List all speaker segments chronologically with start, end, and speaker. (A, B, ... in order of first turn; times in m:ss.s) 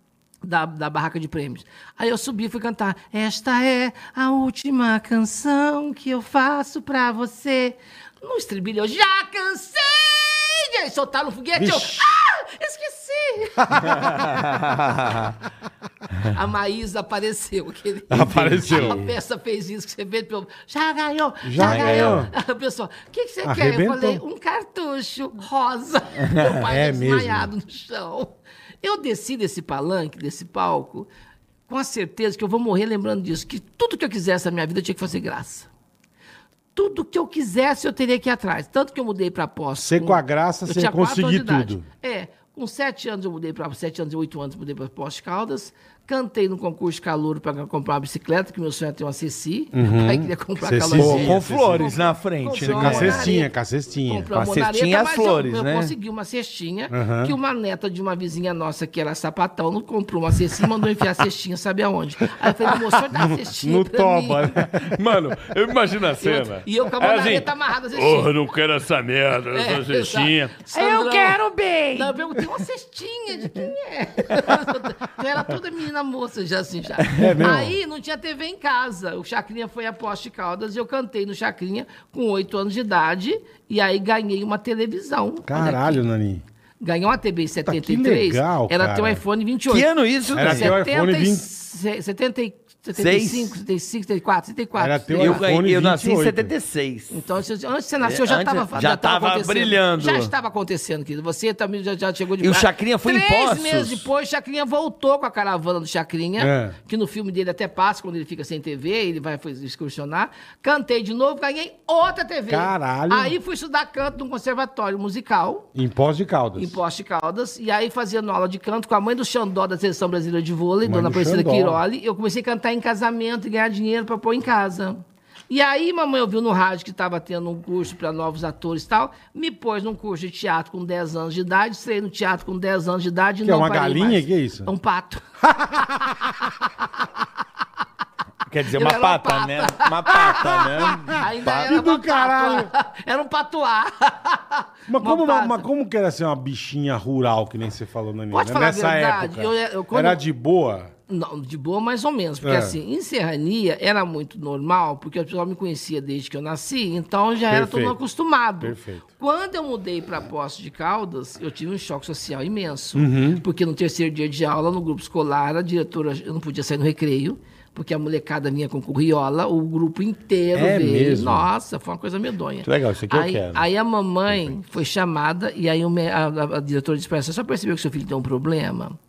0:00.4-0:14.1 A
0:11.6-0:12.0 B
0:13.7-0:14.1 B
0:14.0-0:15.3 C
0:16.3-0:31.1 A
0:18.1-0:19.0 B
0:18.2-0:19.1 C
0:21.4-0:22.3 B
0:21.6-0:22.2 C
0:23.4-0:24.2 B
0:26.2-0:26.5 C
0:26.6-0:27.5 B
0:31.7-0:35.7 A
0:36.7-0:53.5 A
0:39.8-0:41.8 B
0:49.7-0:51.9 B
0:50.9-0:53.3 C
0:52.5-0:54.4 B
0:54.0-1:04.6 A
0:54.3-0:55.9 C
0:56.9-0:57.3 B
1:03.1-1:05.0 B
1:04.8-1:12.1 C
1:06.2-1:08.3 A
1:09.5-1:11.4 A
1:11.9-1:26.0 A
1:17.1-1:17.8 B
1:25.5-1:26.4 B
1:26.8-1:29.9 A
1:27.6-1:29.2 B
1:29.7-1:30.8 C
1:30.3-1:31.4 B
1:30.4-1:35.5 A
1:33.0-1:33.5 C
1:34.8-1:36.5 B
1:35.2-1:37.2 C
1:37.1-1:55.7 A
1:38.0-1:40.3 C
1:42.4-1:44.0 C
1:46.4-1:46.8 B
1:52.5-1:53.4 B
1:55.7-1:56.8 B
1:56.6-2:15.2 A
2:00.8-2:01.8 B
2:13.4-2:14.7 B
2:15.5-2:16.4 B
2:18.4-2:21.7 C
2:18.7-2:25.6 A
2:21.6-2:22.7 B
2:24.9-2:30.9 B
2:28.3-2:30.2 A
2:31.1-2:59.0 A
2:32.4-2:32.8 B
2:37.5-2:38.0 B
2:38.6-2:39.0 B
2:42.9-2:43.4 B
2:50.5-2:51.5 B
2:52.6-2:53.6 C